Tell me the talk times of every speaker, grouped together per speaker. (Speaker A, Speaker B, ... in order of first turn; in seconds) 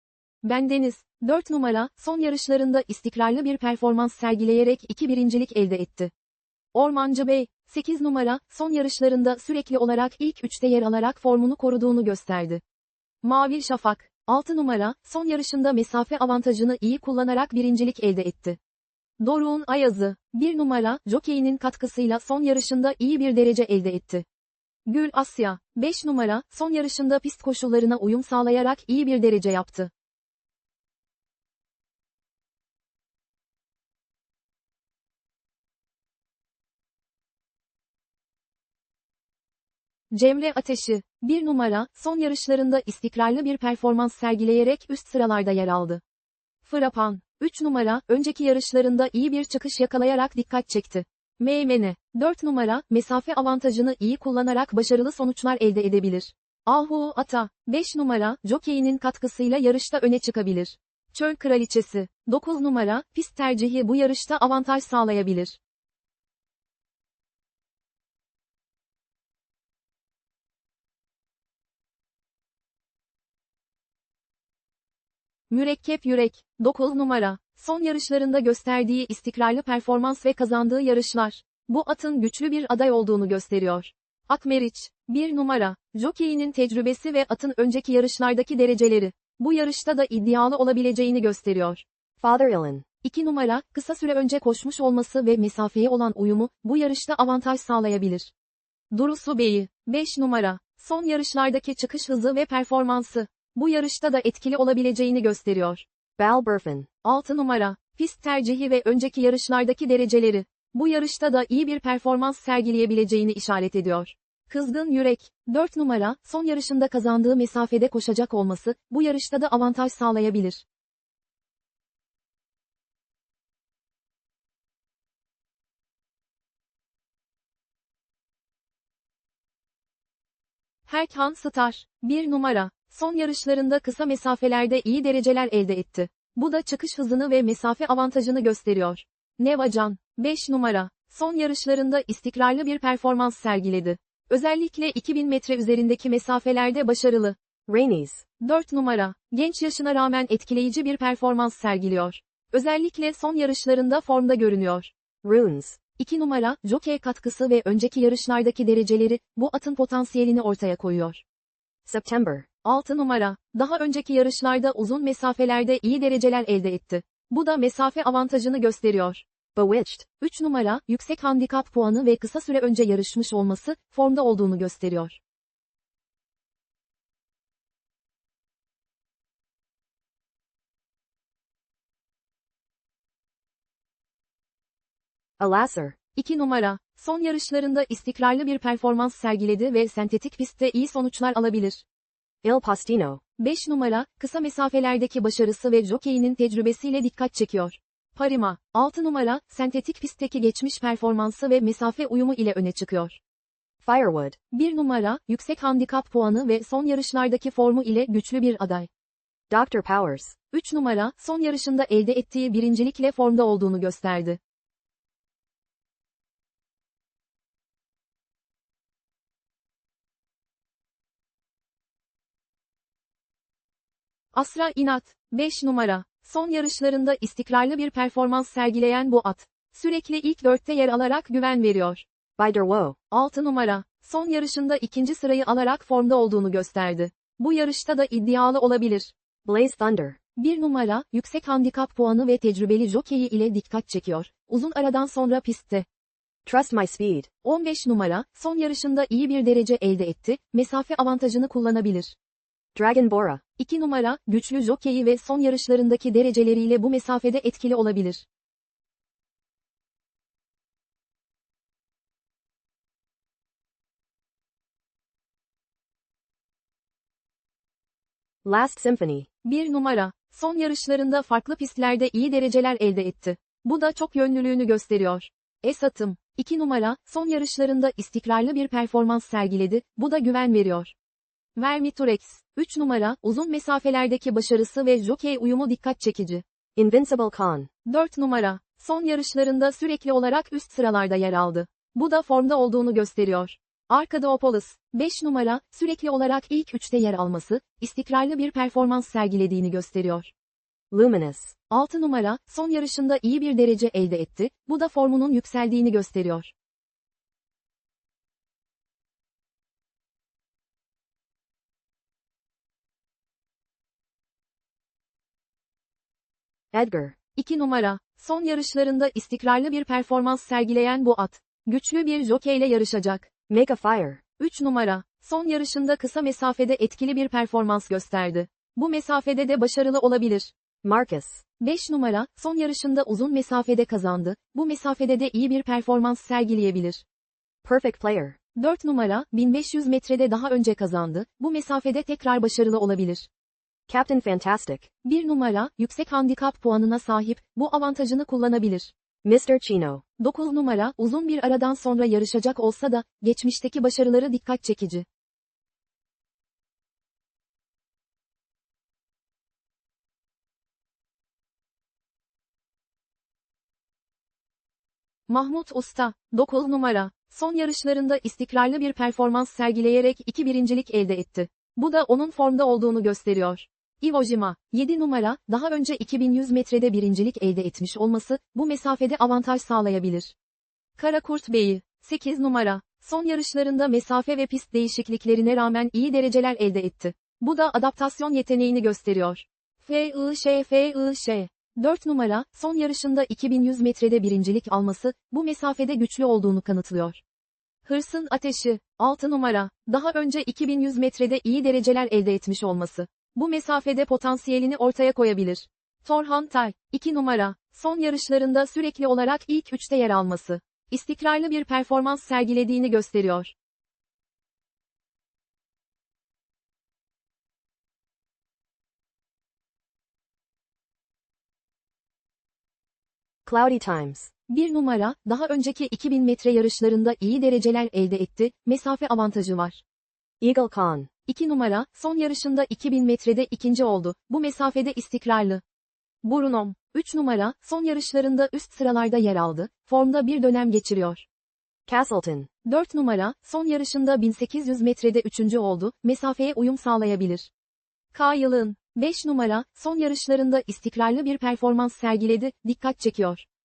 Speaker A: 0.4-6.1, 6.7-12.6, 13.2-18.6, 19.2-24.2, 24.9-29.9, 40.1-46.0, 46.6-65.6, 75.5-91.8, 93.0-98.3, 98.9-105.8, 107.0-120.6, 130.9-147.3, 148.4-154.9, 155.9-161.2, 162.6-169.2, 170.2-175.2, 186.1-191.8, 193.4-203.2, 204.5-208.9, 210.5-214.4, 224.3-232.0, 233.1-239.1, 240.4-245.8, 247.4-252.1, 253.6-258.2, 269.4-280.9, 281.6-286.4, 287.9-300.3, 301.7-306.5, 317.3-323.3, 324.4-330.5, 331.6-337.0, 338.6-343.3, 345.0-348.9, 350.2-355.0, 365.3-380.3, 381.0-397.2, 397.8-413.5, 424.5-429.8, 431.2-435.6, 436.2-441.2, 442.6-447.5, 448.1-453.4
Speaker B: 92.2-92.8, 106.2-106.9, 147.7-148.2, 155.2-155.8, 161.8-162.5, 169.5-170.1, 185.4-186.0, 192.4-193.2, 203.8-204.4, 209.5-210.3, 232.4-233.0, 239.4-240.2, 246.4-247.3, 252.7-253.4, 268.4-269.3, 286.8-287.7, 300.9-301.5, 316.7-317.2, 323.5-324.2, 330.8-331.4, 337.6-338.4, 343.9-344.9, 349.2-350.0, 423.4-424.3, 430.4-431.1, 441.9-442.5